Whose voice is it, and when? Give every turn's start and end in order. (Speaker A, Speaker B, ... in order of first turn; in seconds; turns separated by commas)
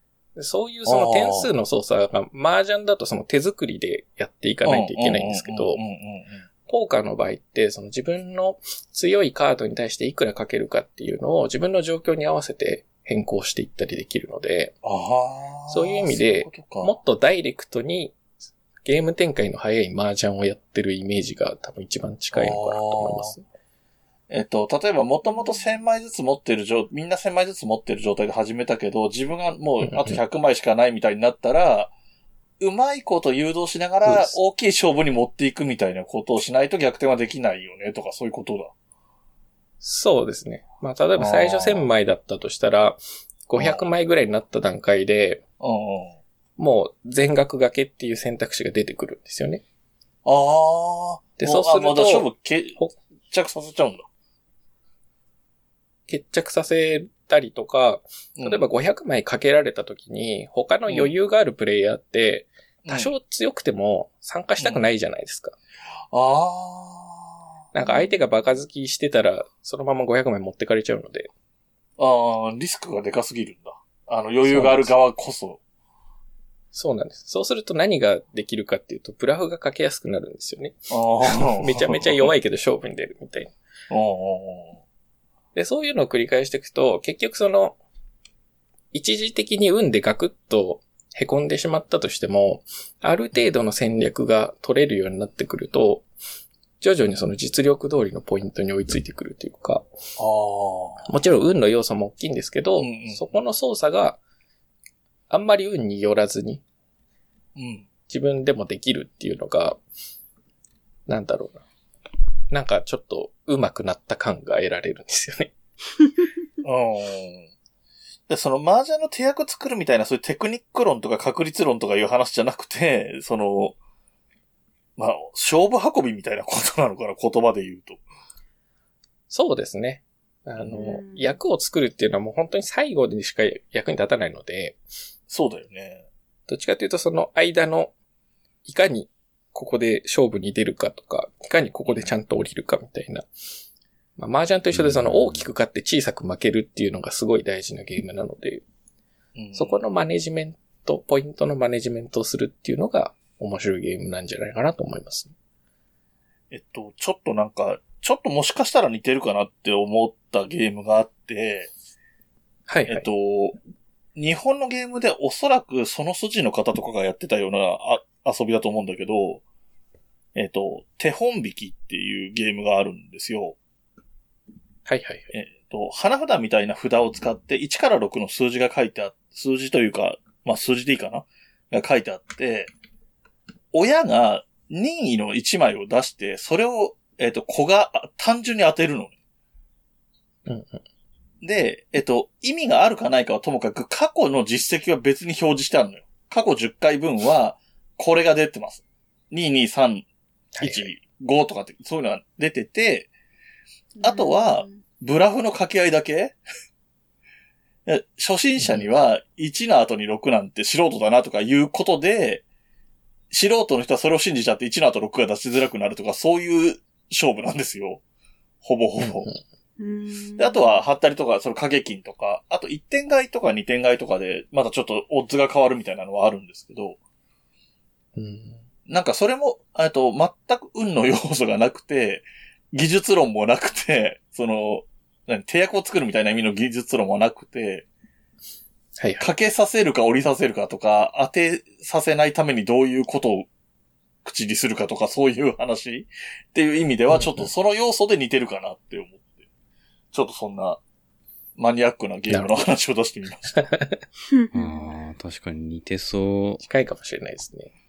Speaker A: 0.4-5.8, Speaker B: 0.9-1.5, Speaker B: 4.7-6.4, Speaker A: 6.7-14.7, Speaker B: 14.8-16.9, Speaker A: 15.7-18.2, Speaker A: 18.8-23.4, Speaker B: 22.3-23.4, Speaker B: 24.3-31.9, Speaker A: 29.8-30.2, Speaker B: 32.6-38.7, Speaker A: 34.0-34.4, Speaker A: 39.8-45.4, Speaker B: 41.2-41.9, Speaker B: 43.6-43.8, Speaker B: 45.6-46.2, Speaker A: 46.6-49.6, Speaker B: 50.2-52.8, Speaker A: 51.4-53.0, Speaker B: 53.3-54.1, Speaker A: 56.1-65.6, Speaker B: 58.4-58.6, Speaker B: 62.8-63.1, Speaker B: 64.6-64.8, Speaker B: 66.1-67.5, Speaker A: 67.7-71.3, Speaker C: 67.8-68.2, Speaker B: 72.0-75.6, Speaker A: 74.4-75.0, Speaker A: 76.7-83.5, Speaker B: 80.9-82.3, Speaker B: 83.9-84.8, Speaker A: 85.5-87.8, Speaker A: 88.9-96.1, Speaker A: 96.8-99.8, Speaker B: 100.2-101.1, Speaker A: 101.1-104.2, Speaker B: 102.8-103.4, Speaker A: 105.3-106.6, Speaker B: 107.6-107.9, Speaker A: 108.1-109.8, Speaker A: 111.1-111.6, Speaker A: 112.5-115.5, Speaker B: 116.6-117.5, Speaker B: 118.3-123.8, Speaker B: 125.0-128.0, Speaker A: 129.3-134.8, Speaker C: 130.8-131.3, Speaker B: 135.3-136.1, Speaker A: 136.5-137.9, Speaker A: 138.7-143.3, Speaker B: 141.9-142.1, Speaker A: 144.2-148.6, Speaker D: 144.8-145.4, Speaker B: 149.3-149.8, Speaker A: 149.5-155.3, Speaker B: 156.5-161.7, Speaker A: 162.7-163.1, Speaker B: 162.9-163.6, Speaker B: 164.2-169.4, Speaker B: 170.3-173.6, Speaker A: 174.9-175.3, Speaker B: 175.3-182.7, Speaker B: 183.7-189.1, Speaker A: 190.5-190.8, Speaker B: 191.4-200.1, Speaker A: 200.6-200.9, Speaker B: 200.6-203.1, Speaker C: 204.0-204.8, Speaker B: 204.0-206.4, Speaker B: 207.9-212.4, Speaker A: 208.6-208.9, Speaker B: 213.3-218.0, Speaker B: 218.6-219.3, Speaker A: 219.0-219.4, Speaker C: 219.8-220.8, Speaker B: 220.4-227.0, Speaker A: 228.2-228.6, Speaker B: 228.9-237.9, Speaker A: 239.0-239.2, Speaker B: 239.2-243.5, Speaker B: 244.2-249.4, Speaker A: 247.1-247.5, Speaker B: 250.1-250.8, Speaker B: 251.6-253.7, Speaker A: 252.3-252.6, Speaker A: 253.6-254.0, Speaker C: 254.3-254.9, Speaker D: 254.5-256.6, Speaker A: 256.6-257.7